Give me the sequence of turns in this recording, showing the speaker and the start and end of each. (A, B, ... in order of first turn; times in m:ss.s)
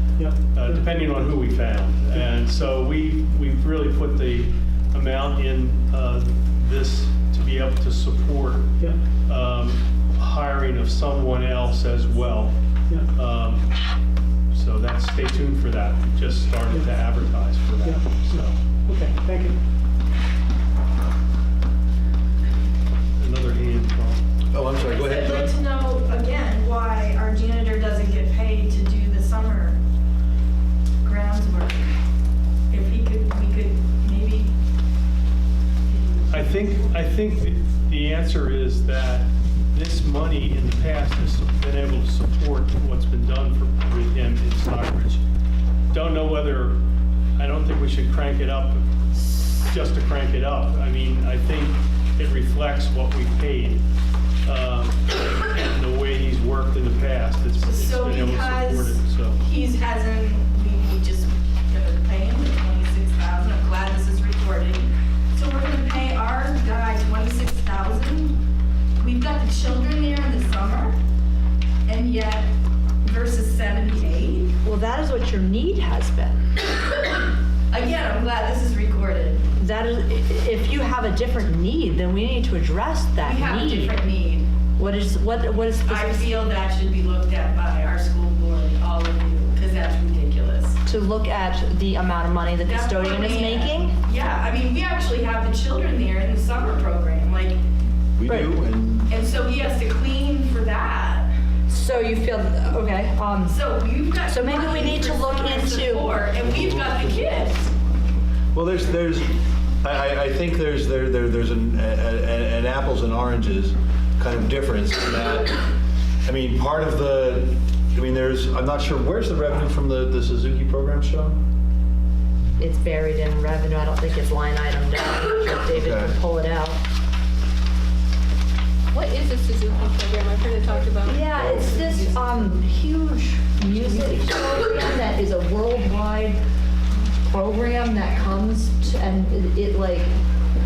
0:00.2-0:00.8 A
0:00.5-0:12.5 B
0:13.1-0:13.7 B
0:14.5-0:18.6 B
0:17.8-0:19.6 A
0:23.2-0:24.2 B
0:24.5-0:25.5 C
0:24.8-0:29.8 D
0:31.0-0:31.9 D
0:32.7-0:34.5 D
0:36.3-0:45.2 B
0:45.9-0:46.8 B
0:47.4-0:53.8 B
0:54.4-0:59.4 B
0:57.6-1:08.4 D
1:09.0-1:10.9 D
1:11.9-1:12.5 D
1:13.0-1:14.5 D
1:14.6-1:16.4 E
1:17.1-1:19.5 D
1:19.6-1:23.9 E
1:23.2-1:24.5 D
1:24.8-1:26.3 E
1:25.8-1:30.8 D
1:30.8-1:33.9 E
1:32.6-1:37.6 D
1:38.2-1:39.1 C
1:38.2-1:38.6 E
1:39.1-1:41.3 D
1:41.7-1:43.6 E
1:43.5-1:47.7 D
1:44.3-1:46.2 E
1:48.5-1:55.6 C
1:56.2-2:01.4 C
2:02.6-2:06.8 E
2:05.7-2:06.1 C
2:08.9-2:12.1 F
2:11.0-2:16.4 E
2:11.3-2:11.7 C
2:17.1-2:20.1 E